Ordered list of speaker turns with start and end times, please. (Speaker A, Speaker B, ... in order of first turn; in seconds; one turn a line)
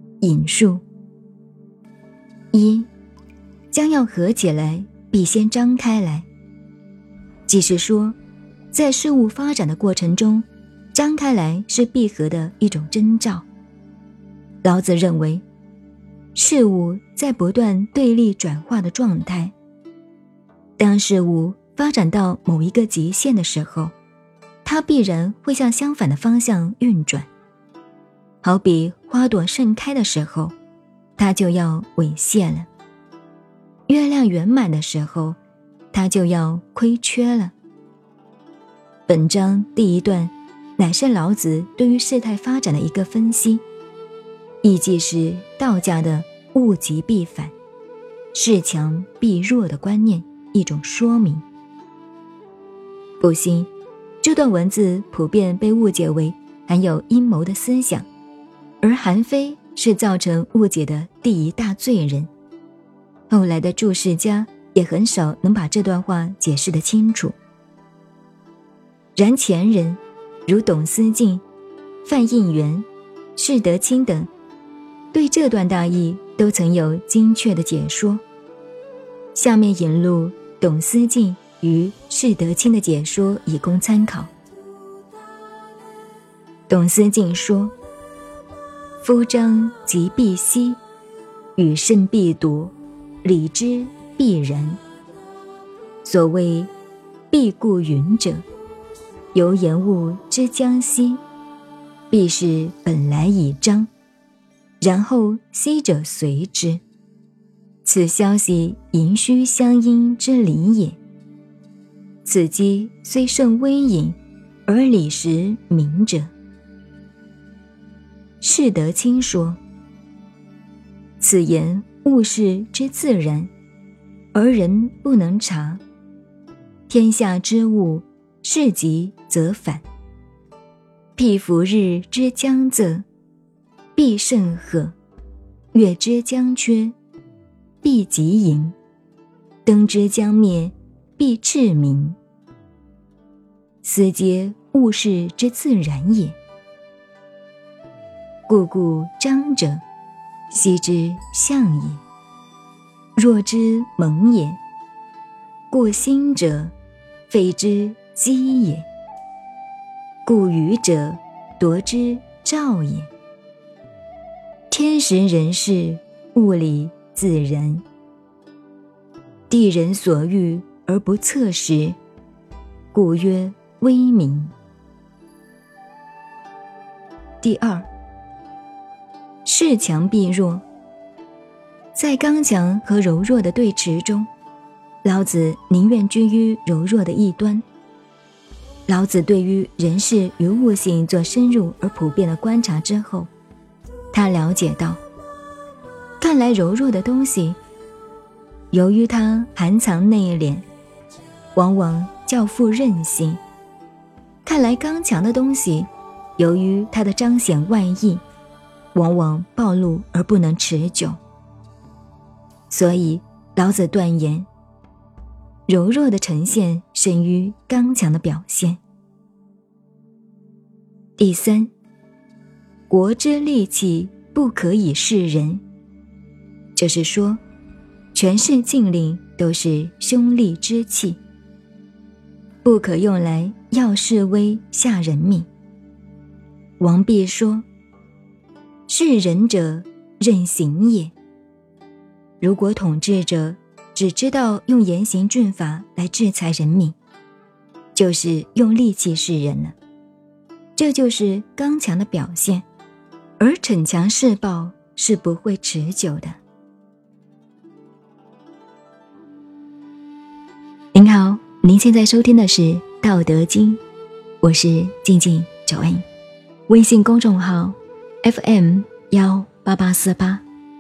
Speaker A: 0.2-0.8
Speaker A: 2.5-2.9
Speaker A: 3.7-6.3
Speaker A: 7.5-8.2
Speaker A: 8.7-13.5
Speaker A: 14.6-15.4
Speaker A: 16.4-19.5
Speaker A: 20.8-23.9
Speaker A: 24.6-27.3
Speaker A: 28.4-30.5
Speaker A: 31.2-32.7
Speaker A: 33.9-35.4
Speaker A: 35.9-37.5
Speaker A: 39.1-43.6
Speaker A: 44.6-47.5
Speaker A: 48.3-51.5
Speaker A: 53.2-53.7
Speaker A: 54.2-58.1
Speaker A: 58.8-62.3
Speaker A: 63.3-67.4
Speaker A: 69.2-71.4
Speaker A: 72.0-74.3
Speaker A: 75.1-78.2
Speaker A: 79.3-84.3
Speaker A: 86.7-87.7
Speaker A: 89.0-90.8
Speaker A: 91.6-94.8
Speaker A: 96.0-96.7
Speaker A: 97.3-98.4
Speaker A: 99.3-101.2
Speaker A: 102.1-103.9
Speaker A: 104.8-106.8
Speaker A: 107.8-111.0
Speaker A: 112.2-116.3
Speaker A: 118.4-119.6
Speaker A: 121.2-123.5
Speaker A: 124.3-125.8
Speaker A: 126.9-129.8
Speaker A: 131.2-133.1
Speaker A: 134.0-134.9
Speaker A: 135.7-136.9
Speaker A: 137.8-138.8
Speaker A: 139.7-142.2
Speaker A: 143.8-146.4
Speaker A: 148.5-149.8
Speaker A: 150.5-152.0
Speaker A: 153.2-154.6
Speaker A: 155.7-156.7
Speaker A: 157.3-158.9
Speaker A: 160.3-163.1
Speaker A: 164.7-167.8
Speaker A: 169.5-172.0
Speaker A: 172.9-174.5
Speaker A: 177.4-177.9
Speaker A: 179.4-180.6
Speaker A: 181.9-184.3
Speaker A: 185.0-187.6
Speaker A: 188.9-193.3
Speaker A: 194.1-195.0
Speaker A: 196.2-197.6
Speaker A: 198.7-200.7
Speaker A: 201.6-203.4
Speaker A: 204.4-208.2
Speaker A: 208.9-211.2
Speaker A: 212.7-214.5
Speaker A: 215.7-218.8
Speaker A: 221.2-221.7
Speaker A: 222.9-225.6
Speaker A: 226.8-227.4
Speaker A: 228.1-231.2
Speaker A: 232.6-235.5
Speaker A: 236.8-237.7
Speaker A: 238.9-241.1
Speaker A: 242.4-247.0
Speaker A: 247.9-249.8
Speaker A: 250.8-252.7
Speaker A: 253.4-256.4
Speaker A: 260.9-263.8
Speaker A: 264.4-266.0
Speaker A: 266.7-270.4